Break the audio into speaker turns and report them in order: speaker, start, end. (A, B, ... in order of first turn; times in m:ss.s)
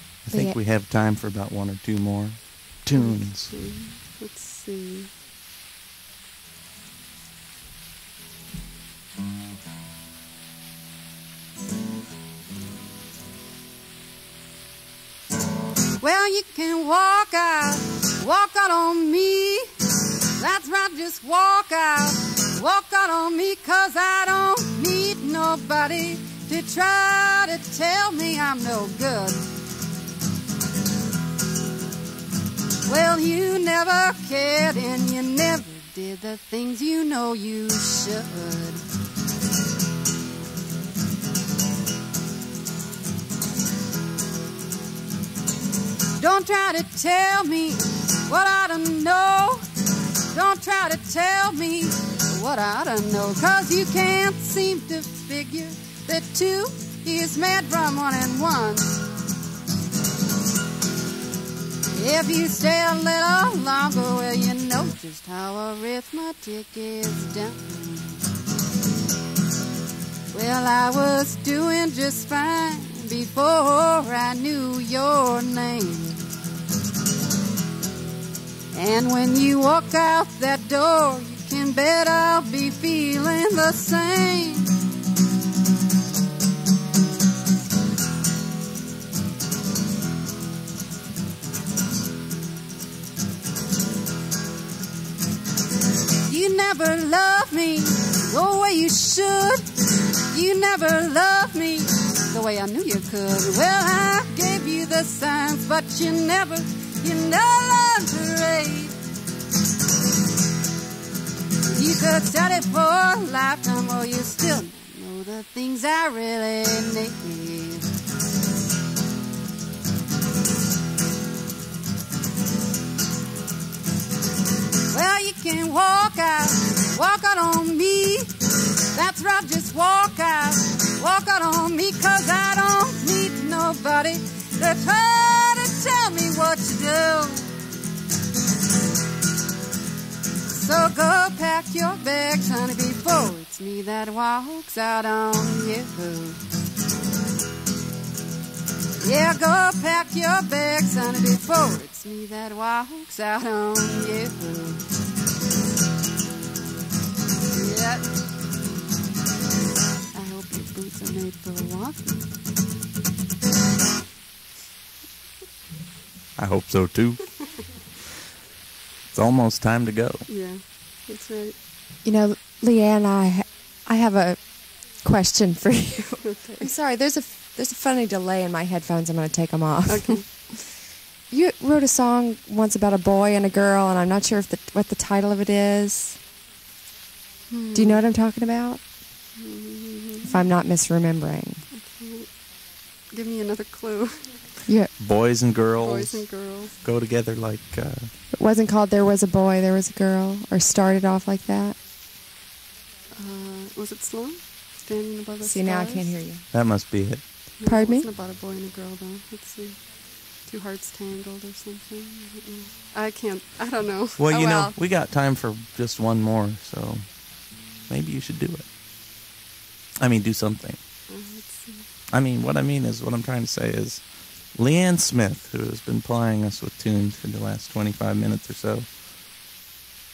0:00.2-0:03.6 A
0:00.3-0:00.6 B
0:02.9-0:05.1 C
0:16.0-0:19.7 D
0:20.4-0:29.4 D
0:32.9-0:38.8 D
0:46.2-0:49.7 D
0:50.3-0:59.0 D
1:01.9-1:08.2 D
1:10.3-1:16.3 D
1:18.7-1:24.7 D
1:36.3-1:39.7 D
1:40.3-1:49.0 D
1:51.7-1:57.9 D
2:04.9-2:08.3 D
2:08.9-2:17.5 D
2:20.5-2:26.4 D
2:29.0-2:34.8 D
2:37.5-2:38.1 D
2:40.1-2:42.3 D
2:46.4-2:47.3 A
2:49.1-2:50.3 A
2:50.3-2:51.6 C
2:52.0-3:00.7 B
2:56.3-2:56.7 C
2:59.9-3:00.2 C
3:01.3-3:06.2 B
3:07.5-3:08.1 C
3:07.8-3:08.8 B
3:09.4-3:10.5 C
3:10.2-3:11.7 B
3:11.7-3:12.3 C
3:13.1-3:14.4 C
3:14.7-3:14.9 B
3:15.0-3:18.1 A
3:15.8-3:16.8 C
3:18.3-3:21.8 B
3:23.1-3:26.2 C
3:25.4-3:26.4 B
3:26.5-3:27.2 A
3:27.6-3:34.7 C
3:27.6-3:28.1 B
3:34.2-3:38.7 A
3:40.0-3:40.8 A
3:41.1-3:41.9 C
3:42.1-3:48.9 A